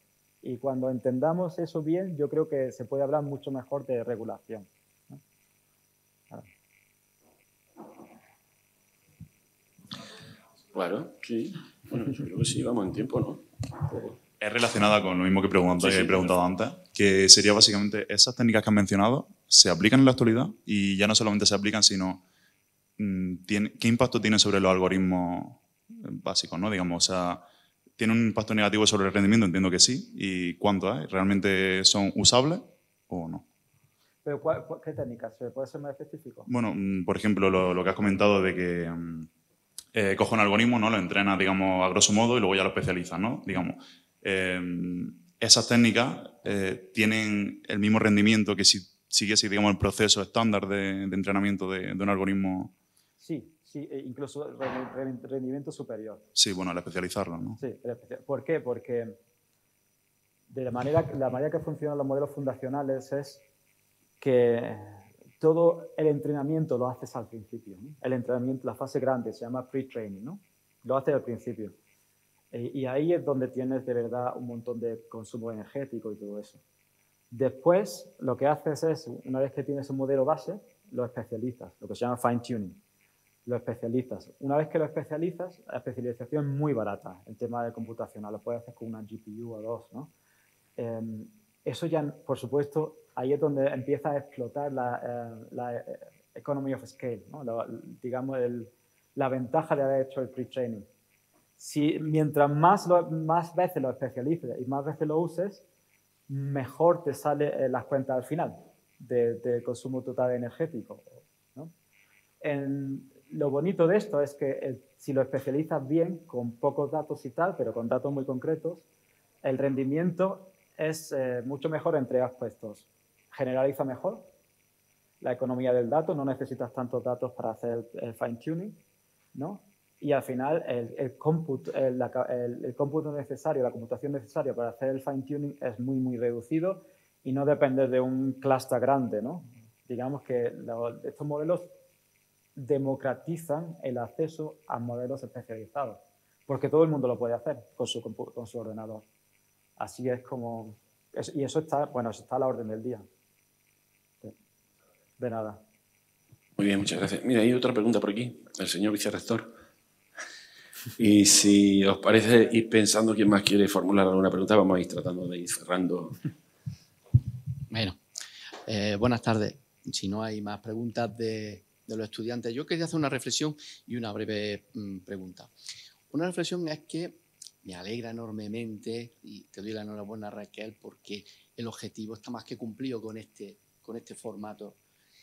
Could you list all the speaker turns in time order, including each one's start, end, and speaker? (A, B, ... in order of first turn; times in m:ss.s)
0:00.4-0:05.2 A
0:10.7-0:14.2 B
0:14.4-0:22.2 C
0:15.8-0:16.4 B
0:23.0-0:27.4 C
0:28.0-0:33.4 C
0:34.2-0:36.5 A
0:36.5-0:39.3 C
0:39.9-0:52.7 C
0:53.2-0:56.2 A
0:56.4-0:57.6 C
0:57.6-0:59.2 A
1:00.5-1:03.4 A
1:04.2-1:11.7 A
1:12.5-1:16.6 A
1:17.3-1:22.8 A
1:23.4-1:30.1 A
1:30.8-1:40.9 A
1:41.6-1:45.6 A
1:46.3-1:51.7 A
1:52.4-1:58.8 A
1:59.4-2:04.3 A
2:05.2-2:08.8 A
2:09.3-2:21.7 A
2:22.6-2:29.0 A
2:29.8-2:33.1 A
2:35.2-2:35.6 A
2:36.6-2:39.5 B
2:41.0-2:46.2 B
2:47.7-2:48.0 D
2:48.7-2:55.5 D
2:56.1-3:04.8 D